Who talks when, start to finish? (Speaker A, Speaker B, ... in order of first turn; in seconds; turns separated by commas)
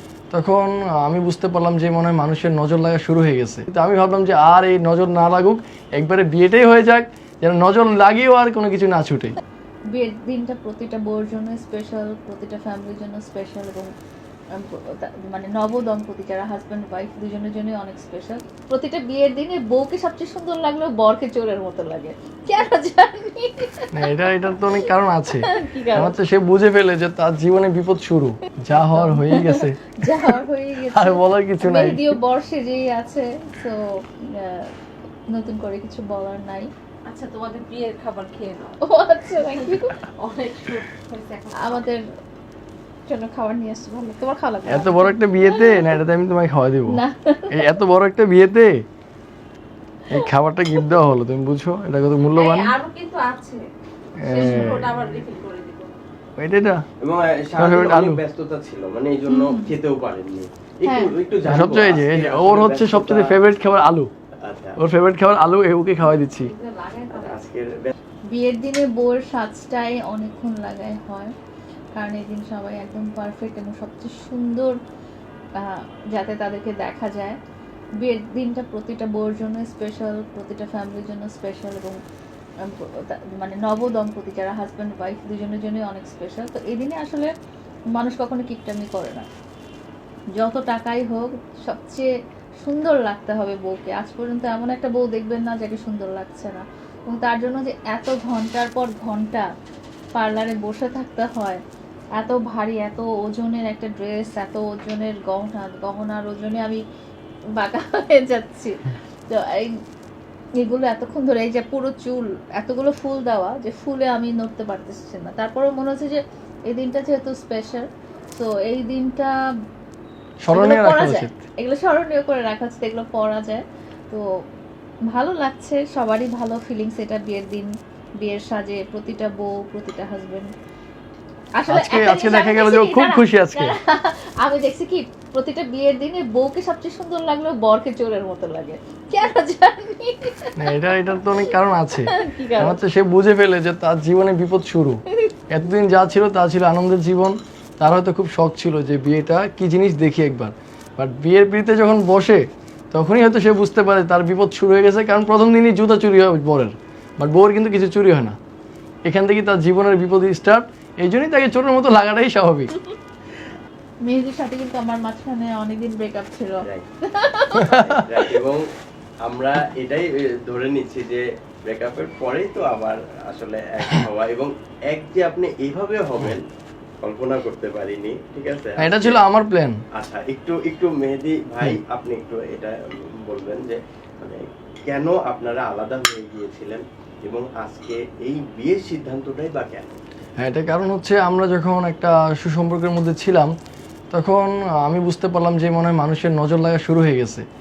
Speaker A: 0.3-9.3, Speaker B: 9.9-13.9, Speaker B: 14.5-23.9, Speaker A: 23.9-32.1, Speaker B: 25.5-26.1, Speaker B: 28.7-34.7, Speaker B: 35.3-36.7, Speaker C: 37.0-38.8, Speaker B: 38.8-40.0, Speaker C: 39.5-41.9, Speaker B: 41.5-42.0, Speaker B: 43.1-45.7, Speaker A: 44.7-48.8, Speaker B: 46.9-47.5, Speaker A: 50.1-52.8, Speaker C: 52.3-56.0, Speaker A: 54.2-54.9, Speaker A: 56.4-56.8, Speaker D: 57.0-63.4, Speaker A: 57.6-58.2, Speaker B: 59.3-59.7, Speaker B: 60.8-61.1, Speaker A: 61.4-64.1, Speaker D: 64.4-64.8, Speaker A: 64.8-66.5, Speaker C: 66.4-67.4, Speaker D: 67.1-67.9, Speaker B: 68.3-71.3, Speaker B: 71.9-74.8, Speaker B: 75.6-77.4, Speaker B: 78.0-82.0, Speaker B: 82.6-87.3, Speaker B: 87.9-89.3, Speaker B: 90.4-92.1, Speaker B: 92.6-99.5, Speaker B: 100.1-101.6, Speaker B: 102.2-106.8, Speaker B: 107.5-109.8, Speaker B: 110.6-119.3, Speaker A: 120.4-121.3, Speaker B: 120.5-124.2, Speaker B: 125.1-130.5, Speaker B: 131.6-140.5, Speaker A: 131.7-133.7, Speaker A: 140.6-158.4, Speaker B: 142.1-142.8, Speaker A: 159.1-162.7, Speaker B: 164.0-167.9, Speaker A: 167.6-168.0, Speaker D: 167.9-168.6, Speaker D: 169.2-176.4, Speaker D: 177.0-179.2, Speaker A: 178.8-179.8, Speaker D: 179.9-190.0, Speaker A: 190.4-193.5, Speaker A: 194.1-197.4